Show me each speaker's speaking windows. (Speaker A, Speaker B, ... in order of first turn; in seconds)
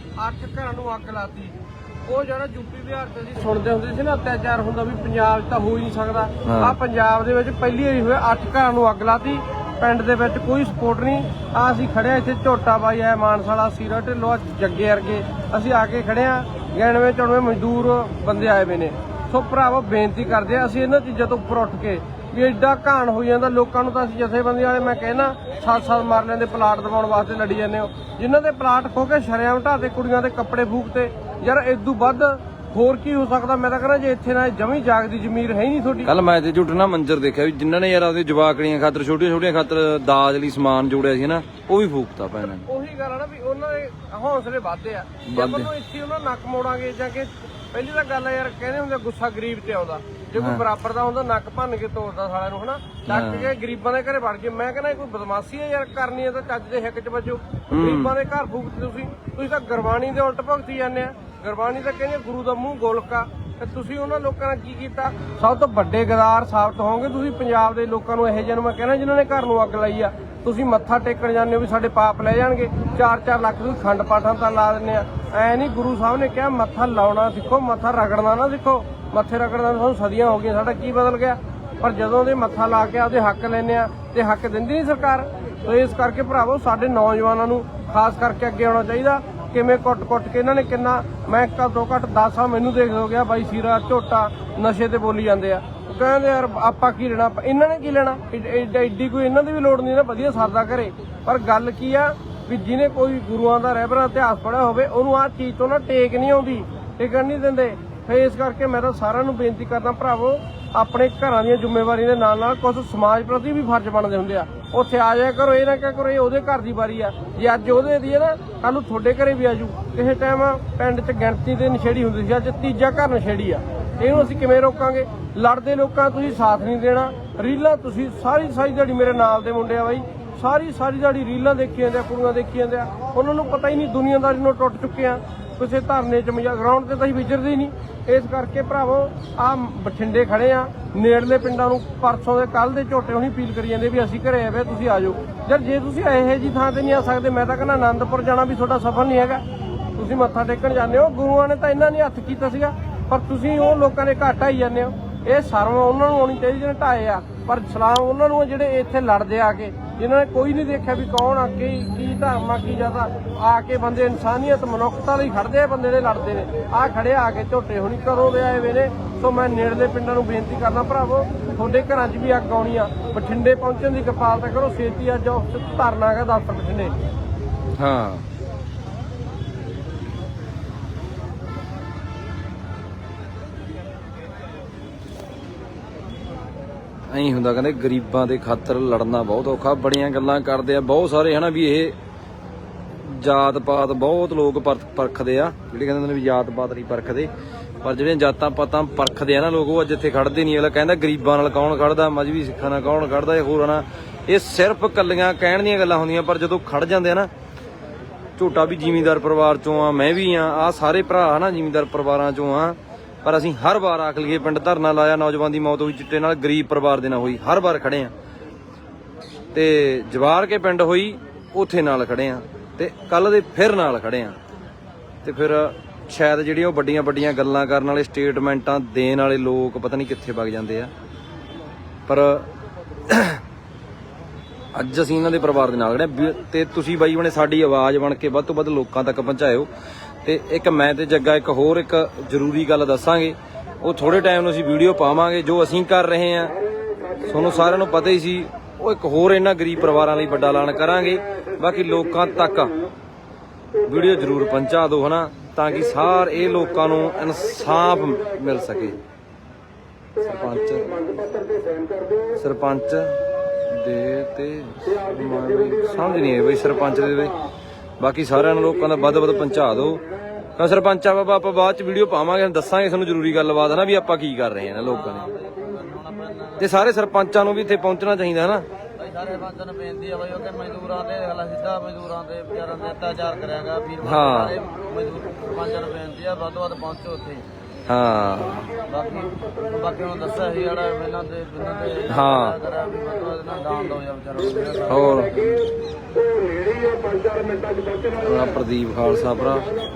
Speaker A: 0.2-36.1, 42.6-149.4, 150.0-176.9
Speaker B: 6.5-6.8, 36.0-42.6, 45.3-45.7, 50.4-50.6, 53.1-53.5, 57.7-58.1, 177.8-178.2, 187.1-191.9, 193.0-197.3, 197.8-207.3, 208.4-218.1, 219.5-224.4, 225.2-230.9, 232.1-232.5, 233.1-233.4, 234.7-239.7, 240.2-246.6, 247.2-252.7, 253.9-259.0, 260.2-261.1, 262.4-263.2, 263.7-267.3, 268.0-270.0, 270.6-275.4, 276.6-278.7, 284.0-284.6, 287.9-288.7, 292.1-292.6, 294.9-295.4, 298.1-299.7
Speaker C: 274.8-276.9, 279.0-287.4, 288.8-295.7